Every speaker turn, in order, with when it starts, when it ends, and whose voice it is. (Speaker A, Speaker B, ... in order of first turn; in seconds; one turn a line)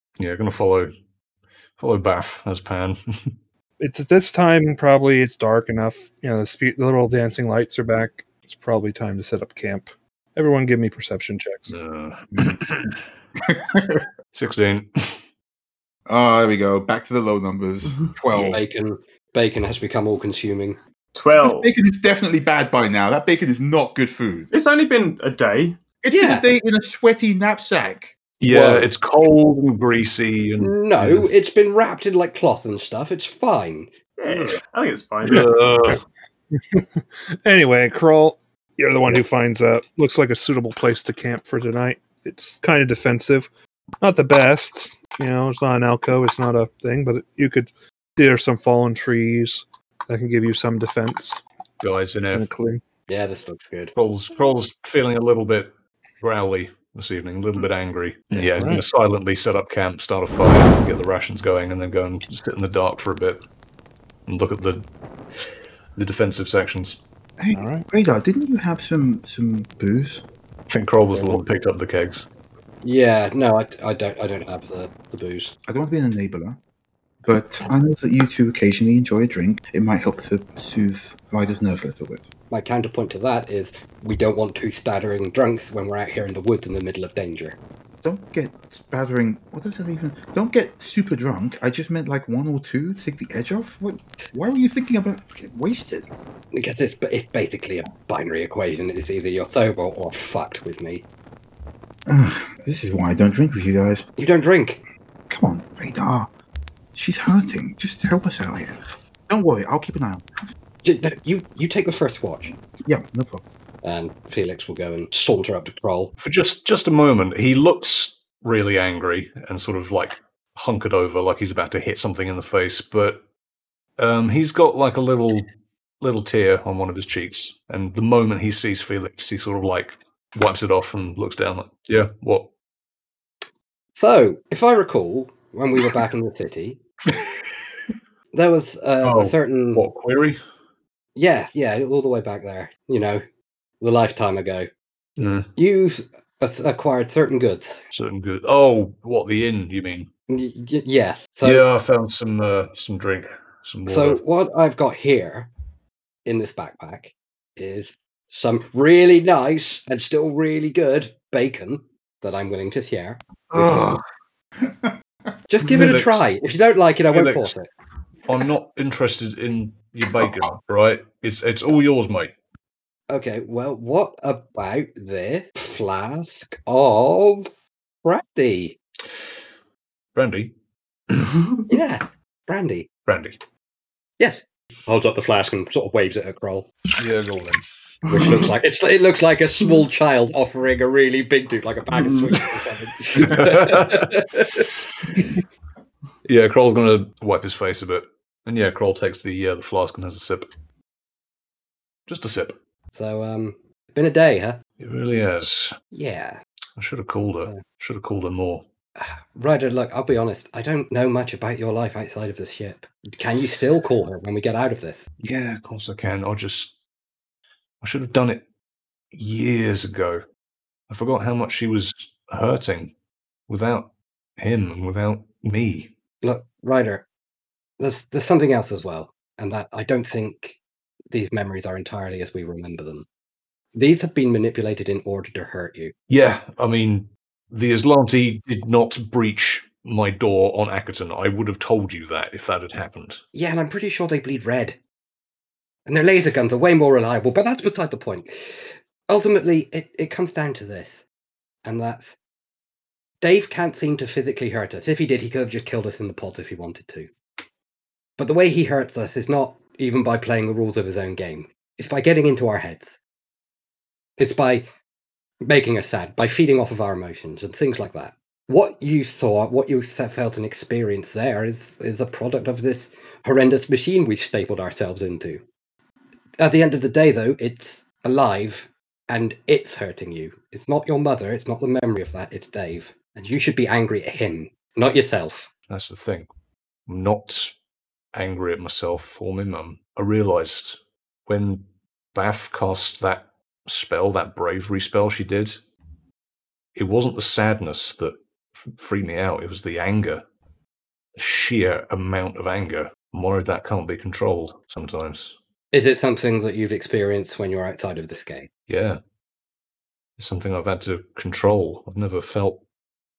Speaker A: 0.2-0.9
Speaker A: 1.8-3.4
Speaker B: 3.8-11.8
Speaker A: 11.7-13.0
Speaker C: 13.4-14.1
Speaker A: 14.3-15.2
Speaker C: 16.1-18.6
Speaker D: 18.5-20.8
Speaker E: 21.1-21.7
Speaker C: 21.4-24.5
Speaker E: 24.5-25.8
Speaker C: 26.0-28.2
Speaker D: 26.2-26.4
Speaker A: 28.4-31.3
Speaker D: 28.4-28.9
Speaker D: 30.6-33.9
Speaker E: 34.2-35.5
Speaker A: 35.2-36.0
Speaker B: 35.3-36.0
Speaker B: 36.7-43.5
Speaker B: 44.0-51.4
Speaker A: 51.8-52.5
Speaker B: 52.3-52.8
Speaker D: 53.1-53.9
Speaker A: 54.0-55.7
Speaker A: 56.2-63.4
Speaker B: 58.3-58.8
Speaker A: 64.3-64.9
Speaker A: 66.0-67.0
Speaker C: 67.4-70.2
Speaker B: 67.5-67.8
Speaker A: 70.7-72.3
Speaker D: 71.1-71.4
Speaker D: 72.8-75.6
Speaker C: 75.7-76.6
Speaker C: 77.2-82.2
Speaker D: 82.5-87.6
Speaker C: 88.0-96.1
Speaker D: 96.5-101.0
Speaker C: 102.1-104.1
Speaker D: 104.2-104.8
Speaker C: 105.3-106.3
Speaker C: 106.9-108.8
Speaker C: 109.3-110.5
Speaker D: 110.8-112.5
Speaker C: 112.8-113.4
Speaker D: 113.8-116.1
Speaker A: 116.2-123.2
Speaker A: 124.0-125.5
Speaker A: 126.0-132.5
Speaker D: 134.0-136.8
Speaker D: 138.3-139.9
Speaker A: 139.0-140.4
Speaker D: 141.2-143.2
Speaker D: 143.8-144.7
Speaker A: 145.2-145.5
Speaker D: 145.6-147.8
Speaker A: 147.9-150.1
Speaker D: 150.3-151.7
Speaker A: 151.4-154.2
Speaker D: 153.9-155.5
Speaker D: 156.2-164.0
Speaker C: 163.5-164.0
Speaker C: 164.6-164.9
Speaker D: 165.5-167.7
Speaker A: 165.7-166.2
Speaker A: 167.1-167.5
Speaker A: 168.3-172.3
Speaker D: 173.1-177.5
Speaker D: 178.0-178.8
Speaker A: 180.1-180.5
Speaker A: 181.1-181.4
Speaker D: 181.7-182.9
Speaker A: 183.1-183.4
Speaker D: 184.2-186.7
Speaker A: 187.0-187.6
Speaker D: 188.1-194.7
Speaker A: 193.1-195.2
Speaker A: 196.3-200.5
Speaker A: 202.1-202.6
Speaker D: 202.9-204.6
Speaker A: 204.8-205.8
Speaker D: 205.9-206.4
Speaker A: 206.8-208.6
Speaker D: 209.0-215.0
Speaker A: 215.2-216.7
Speaker A: 217.8-218.4
Speaker A: 219.1-220.2
Speaker A: 220.9-222.9
Speaker A: 223.5-225.9
Speaker D: 226.2-227.1
Speaker D: 227.8-230.6
Speaker D: 231.1-233.1
Speaker D: 233.7-235.9
Speaker A: 236.1-243.2
Speaker D: 243.3-244.8
Speaker D: 245.9-248.6
Speaker D: 249.1-251.0
Speaker D: 251.7-252.2
Speaker D: 253.2-257.1
Speaker D: 258.2-262.9
Speaker D: 264.2-264.7
Speaker D: 265.4-275.4
Speaker D: 276.4-285.5
Speaker A: 285.7-286.3
Speaker A: 286.9-287.5
Speaker A: 288.1-295.6
Speaker A: 296.8-300.2
Speaker A: 301.2-305.4
Speaker D: 305.7-308.5
Speaker A: 308.7-309.0
Speaker A: 310.2-312.6